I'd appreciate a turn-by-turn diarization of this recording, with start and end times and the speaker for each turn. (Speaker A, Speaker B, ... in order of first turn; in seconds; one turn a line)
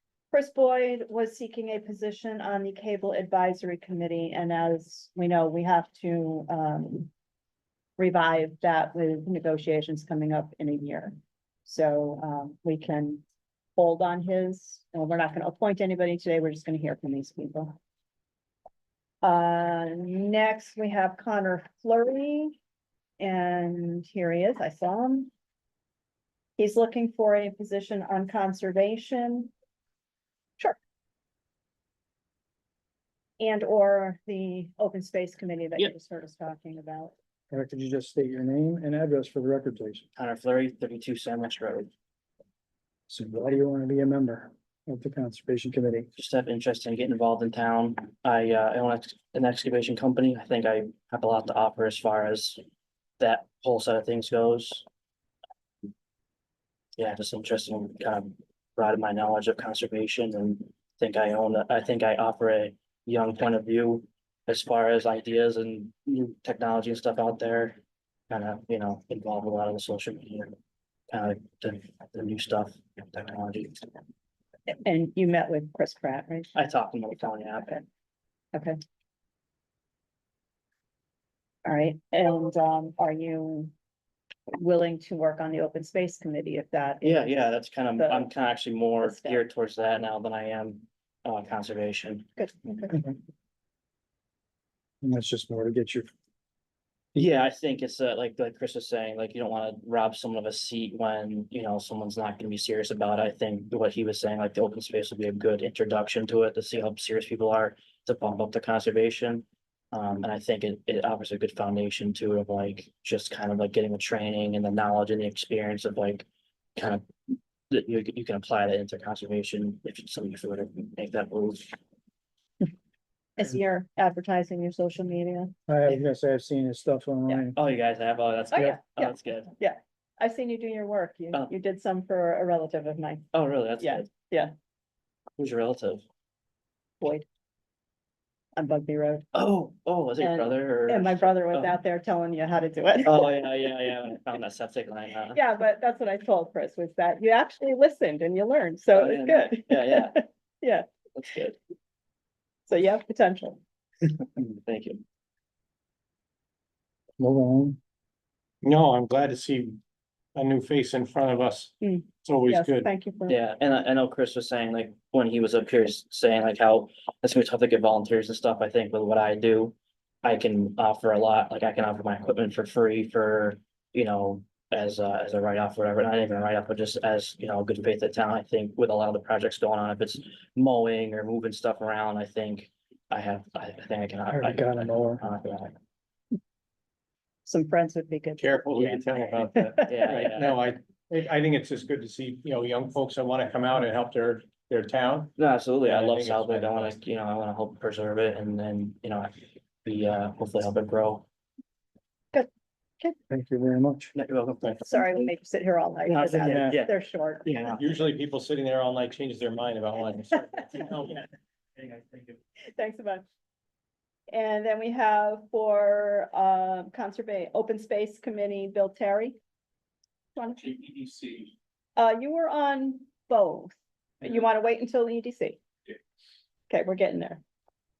Speaker A: 0.3-7.1
Speaker A: 8.0-13.2
Speaker A: 13.8-17.8
Speaker A: 19.2-22.6
Speaker A: 23.2-25.3
Speaker A: 26.6-29.5
Speaker A: 33.4-37.1
Speaker B: 37.5-40.0
Speaker C: 40.1-41.9
Speaker B: 43.1-46.1
Speaker C: 46.1-52.6
Speaker C: 53.2-54.8
Speaker C: 57.0-67.8
Speaker C: 68.3-70.5
Speaker C: 71.1-73.9
Speaker A: 74.8-76.5
Speaker C: 76.5-77.8
Speaker A: 77.5-77.8
Speaker A: 81.7-83.7
Speaker A: 84.5-88.3
Speaker C: 87.0-92.3
Speaker A: 89.0-89.4
Speaker A: 92.4-93.0
Speaker B: 95.0-96.1
Speaker C: 97.1-121.8
Speaker A: 123.4-126.0
Speaker B: 125.7-127.6
Speaker C: 127.5-129.5
Speaker A: 128.5-133.2
Speaker C: 133.3-134.1
Speaker A: 133.8-134.5
Speaker C: 135.4-136.0
Speaker A: 138.6-139.2
Speaker C: 139.3-141.8
Speaker A: 140.2-143.3
Speaker C: 143.0-145.4
Speaker A: 145.3-150.8
Speaker C: 148.9-150.2
Speaker C: 151.1-151.6
Speaker A: 152.7-153.6
Speaker C: 154.2-155.0
Speaker B: 157.2-157.8
Speaker D: 158.6-159.8
Speaker D: 160.3-162.9
Speaker A: 161.8-163.4
Speaker C: 163.3-185.7
Speaker B: 184.3-185.2
Speaker A: 187.4-190.0
Speaker D: 188.4-197.0
Speaker C: 189.9-190.5
Speaker C: 195.3-201.2
Speaker B: 203.3-204.1
Speaker C: 204.1-205.3
Speaker A: 204.8-207.6
Speaker C: 206.1-207.8
Speaker B: 206.3-206.8
Speaker D: 207.7-211.2
Speaker C: 211.8-212.3
Speaker A: 212.7-213.2
Speaker A: 214.3-219.4
Speaker A: 220.3-220.8
Speaker A: 222.0-225.6
Speaker A: 226.7-227.4